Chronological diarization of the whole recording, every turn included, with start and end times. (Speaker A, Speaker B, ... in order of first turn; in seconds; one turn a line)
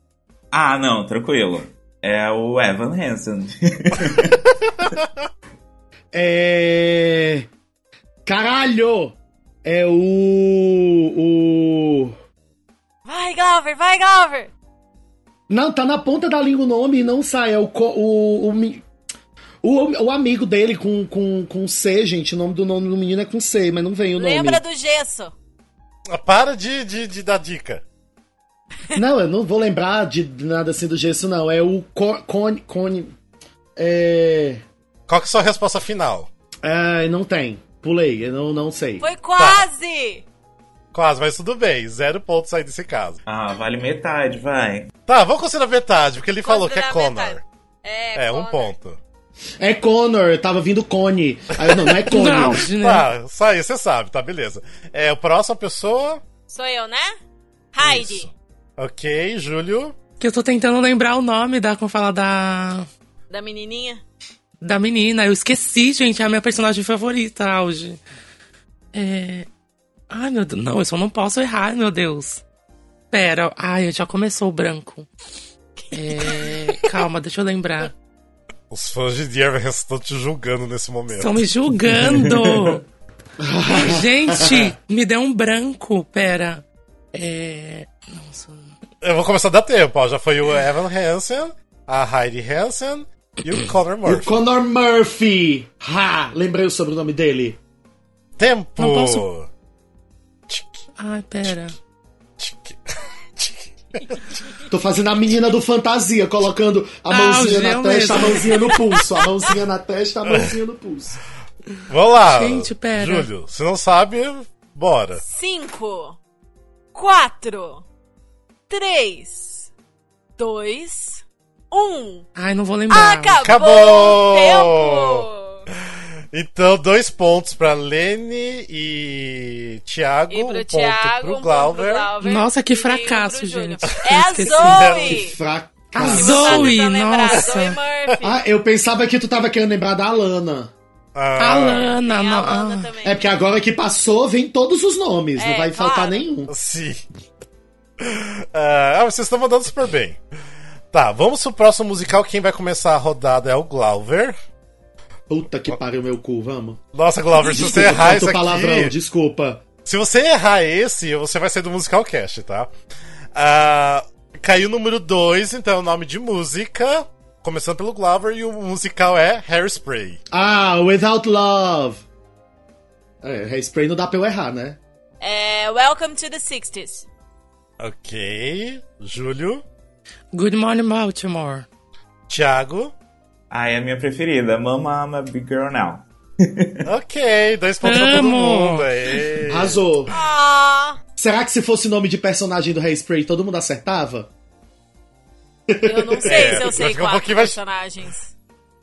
Speaker A: 0.5-4.4
Speaker B: 6.1-7.5
Speaker B: 8.2-12.1
Speaker C: 13.0-14.5
Speaker B: 15.5-18.8
Speaker B: 19.6-24.6
Speaker C: 24.1-25.3
Speaker D: 26.1-27.8
Speaker B: 28.9-33.1
Speaker B: 33.8-34.6
Speaker D: 35.1-36.3
Speaker B: 36.6-39.0
Speaker C: 39.0-40.2
Speaker D: 39.4-39.6
Speaker D: 40.9-43.2
Speaker A: 43.2-44.9
Speaker D: 45.1-47.4
Speaker C: 46.4-48.7
Speaker D: 48.1-49.0
Speaker B: 49.6-52.6
Speaker D: 51.6-56.2
Speaker E: 52.0-53.1
Speaker C: 56.5-57.1
Speaker C: 57.7-58.3
Speaker D: 57.8-60.0
Speaker E: 60.2-62.9
Speaker C: 63.3-64.0
Speaker E: 64.6-68.0
Speaker E: 68.9-69.5
Speaker E: 70.1-72.4
Speaker E: 73.1-75.1
Speaker C: 75.8-76.8
Speaker E: 75.9-77.9
Speaker D: 78.7-81.4
Speaker E: 81.1-82.8
Speaker A: 82.0-82.8
Speaker B: 83.4-84.7
Speaker E: 83.7-88.7
Speaker D: 89.0-94.4
Speaker B: 94.0-97.6
Speaker D: 98.4-99.5
Speaker E: 98.8-99.2
Speaker D: 100.5-100.8
Speaker E: 101.0-101.8
Speaker D: 102.4-102.8
Speaker D: 103.4-104.4
Speaker B: 104.7-111.2
Speaker E: 107.1-108.7
Speaker C: 108.4-109.0
Speaker E: 111.7-113.3
Speaker D: 111.9-115.2
Speaker C: 115.2-116.2
Speaker C: 116.9-117.8
Speaker C: 118.7-119.7
Speaker C: 120.4-122.2
Speaker E: 122.3-123.6
Speaker C: 122.9-125.7
Speaker D: 123.4-125.2
Speaker D: 126.3-132.1
Speaker C: 130.3-135.4
Speaker E: 132.2-135.1
Speaker D: 134.5-135.2
Speaker B: 135.1-136.6
Speaker E: 135.9-137.8
Speaker C: 136.0-138.4
Speaker B: 138.2-140.7
Speaker D: 141.1-142.0
Speaker E: 141.4-142.9
Speaker C: 142.0-143.2
Speaker B: 143.0-146.5
Speaker C: 145.4-146.3
Speaker D: 146.5-147.0
Speaker D: 148.0-150.2
Speaker D: 150.9-154.3
Speaker B: 155.3-156.8
Speaker D: 156.9-158.9
Speaker B: 157.4-159.6
Speaker D: 159.8-162.7
Speaker D: 163.3-170.2
Speaker B: 170.3-172.0
Speaker B: 173.2-174.8
Speaker C: 175.2-177.1
Speaker D: 177.8-179.6
Speaker E: 180.3-181.6
Speaker D: 182.3-182.9
Speaker A: 183.5-186.9
Speaker D: 186.8-189.8
Speaker E: 187.8-189.2
Speaker B: 189.5-190.1
Speaker C: 190.1-191.0
Speaker B: 191.2-194.3
Speaker B: 195.7-196.7
Speaker C: 195.8-198.3
Speaker D: 196.2-197.6